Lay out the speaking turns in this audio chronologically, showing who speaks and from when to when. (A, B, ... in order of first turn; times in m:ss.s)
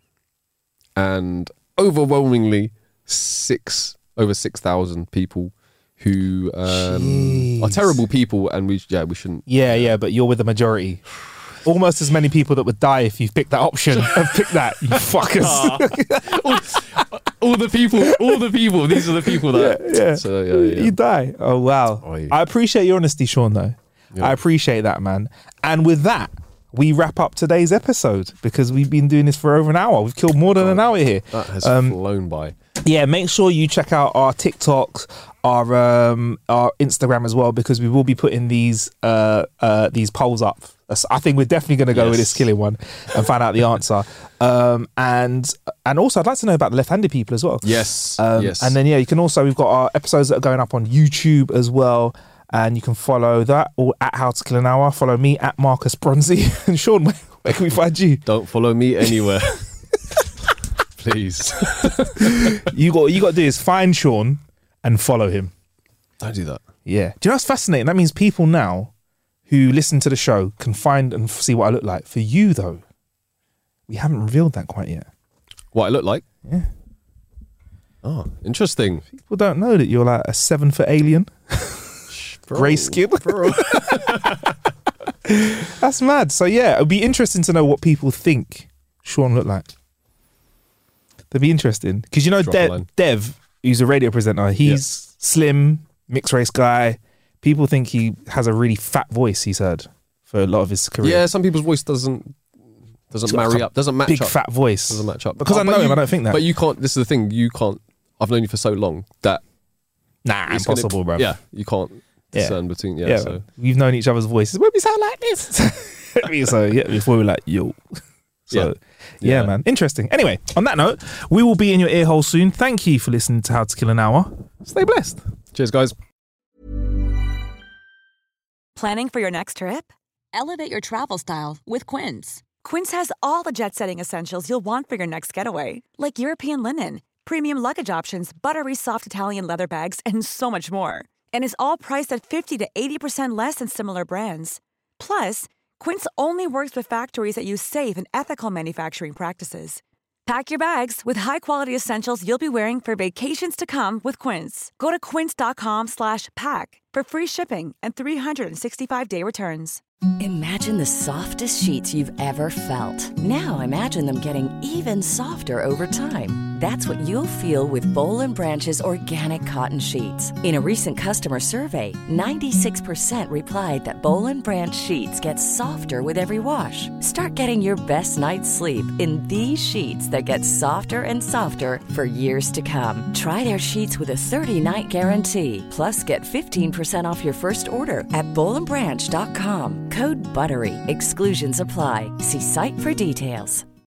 0:01.0-0:09.9 A
0:06.7-0:08.0 B
0:09.5-0:11.0 B
0:11.6-0:17.0 B
0:13.9-0:14.4 A
0:15.3-0:21.0 A
0:18.0-0:18.4 B
0:19.0-0:32.0 B
0:22.0-0:22.4 A
0:30.6-0:32.6 A
0:32.8-0:58.2 B
0:41.9-0:42.5 A
0:47.6-0:48.8 A
0:58.3-0:59.7 A
1:01.0-1:02.7 A
1:02.2-1:05.5 B
1:06.2-1:06.6 A
1:06.9-1:08.9 B
1:09.5-1:12.8 B
1:13.9-1:15.1 B
1:15.7-1:16.2 A
1:18.0-1:19.0 A
1:19.1-1:24.4 B
1:22.1-1:24.5 A
1:25.3-1:29.7 B
1:31.3-1:41.2 B
1:32.4-1:32.9 A
1:41.0-1:42.4 A
1:43.1-1:49.4 A
1:43.3-1:46.5 B
1:50.2-1:51.3 B
1:50.5-1:53.4 A
1:52.4-2:05.2 B
1:58.5-1:59.5 A
2:05.5-2:06.0 A
2:08.8-2:39.8 C
2:40.2-3:13.6 D